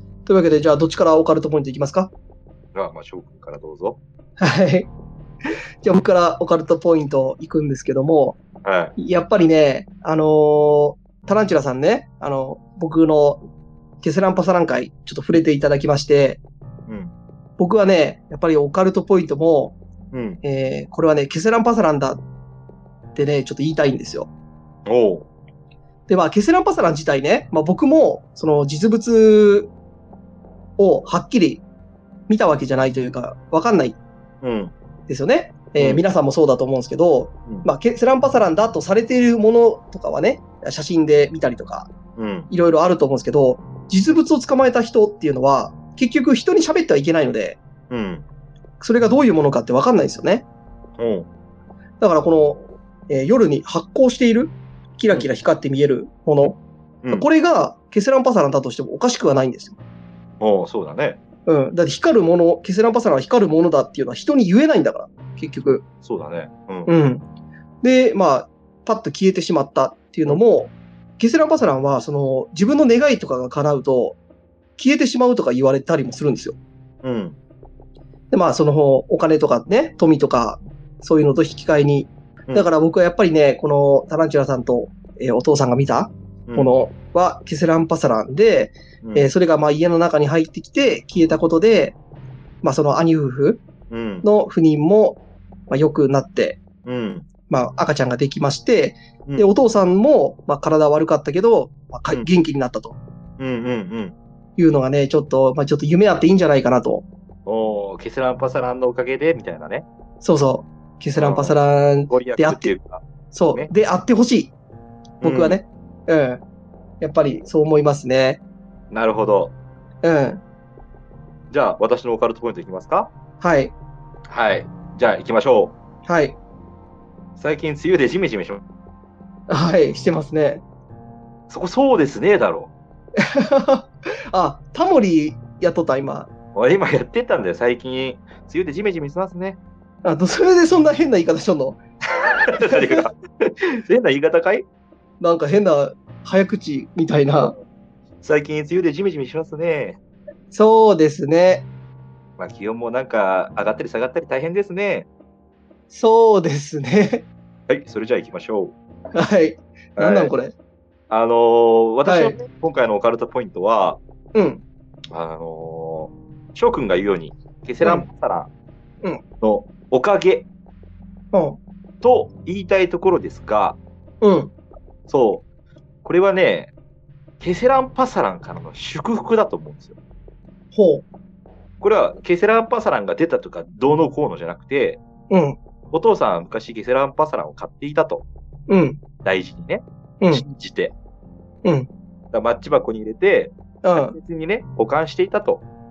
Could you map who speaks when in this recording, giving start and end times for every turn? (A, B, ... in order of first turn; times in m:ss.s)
0:00.3-0:02.1 A
0:02.7-0:04.0 B
0:04.4-0:04.9 A
0:05.8-0:08.4 A
0:08.6-0:09.0 B
0:09.0-0:13.4 A
0:14.0-0:16.4 A
0:16.9-0:17.1 B
0:17.6-0:19.8 A
0:20.1-0:20.4 B
0:20.4-0:22.2 A
0:23.2-0:24.3 A
0:24.9-0:25.3 B
0:26.1-0:29.7 A
0:30.8-0:31.6 A
0:32.3-0:34.0 A
0:34.4-0:34.7 B
0:35.1-0:41.9 A
0:42.2-0:42.5 B
0:42.5-0:47.6 A
0:47.9-0:48.2 B
0:48.8-0:50.4 A
0:51.0-0:51.3 B
0:52.0-0:56.6 A
0:57.1-0:59.8 A
1:00.4-1:01.2 B
1:01.5-1:05.8 A
1:06.0-1:06.9 B
1:06.9-1:07.2 A
1:07.8-1:14.2 A
1:14.8-1:16.6 A
1:17.0-1:17.4 B
1:18.3-1:32.0 A
1:26.5-1:26.7 B
1:29.0-1:29.3 B
1:32.6-1:33.6 A
1:33.9-1:34.2 B
1:34.2-1:36.6 A
1:36.8-1:37.3 B
1:37.5-1:43.0 A
1:43.4-1:44.2 B
1:44.6-1:47.0 A
1:47.5-1:49.9 B
1:50.2-1:52.7 A
1:51.2-1:53.7 B
1:53.3-1:54.5 A
1:55.2-1:55.6 B
1:55.2-1:56.4 A
1:57.0-1:58.4 A
1:58.9-1:59.5 B
2:00.0-2:00.4 A
2:01.5-2:03.1 B
2:03.4-2:03.7 A
2:04.3-2:05.8 B
2:06.1-2:06.4 A
2:07.4-2:08.6 B
2:09.5-2:10.6 A
2:11.5-2:12.7 B
2:13.2-2:16.3 A
2:16.6-2:19.6 B
2:20.0-2:21.8 A
2:22.4-2:24.7 B
2:22.5-2:23.1 A
2:25.2-2:27.6 A
2:28.2-2:30.0 B
2:30.5-2:31.7 A
2:32.4-2:35.1 B
2:35.9-2:37.3 A
2:37.7-2:38.8 B
2:39.1-2:40.5 A
2:40.0-2:40.3 B
2:41.1-2:44.0 B
2:42.0-2:42.4 A
2:44.3-2:44.6 A
2:45.1-2:48.5 B
2:47.8-2:48.1 A
2:49.4-2:50.5 B
2:51.3-2:51.6 A
2:52.0-2:53.8 B
2:54.2-2:54.5 A
2:55.1-2:55.4 B
2:56.0-2:56.7 B
2:57.4-3:00.0 B
3:00.7-3:01.0 A
3:01.8-3:05.0 B
3:05.3-3:05.6 A
3:05.9-3:08.2 B
3:08.7-3:09.0 A
3:09.2-3:10.9 B
3:11.6-3:11.9 A
3:12.3-3:15.6 B
3:13.8-3:14.2 A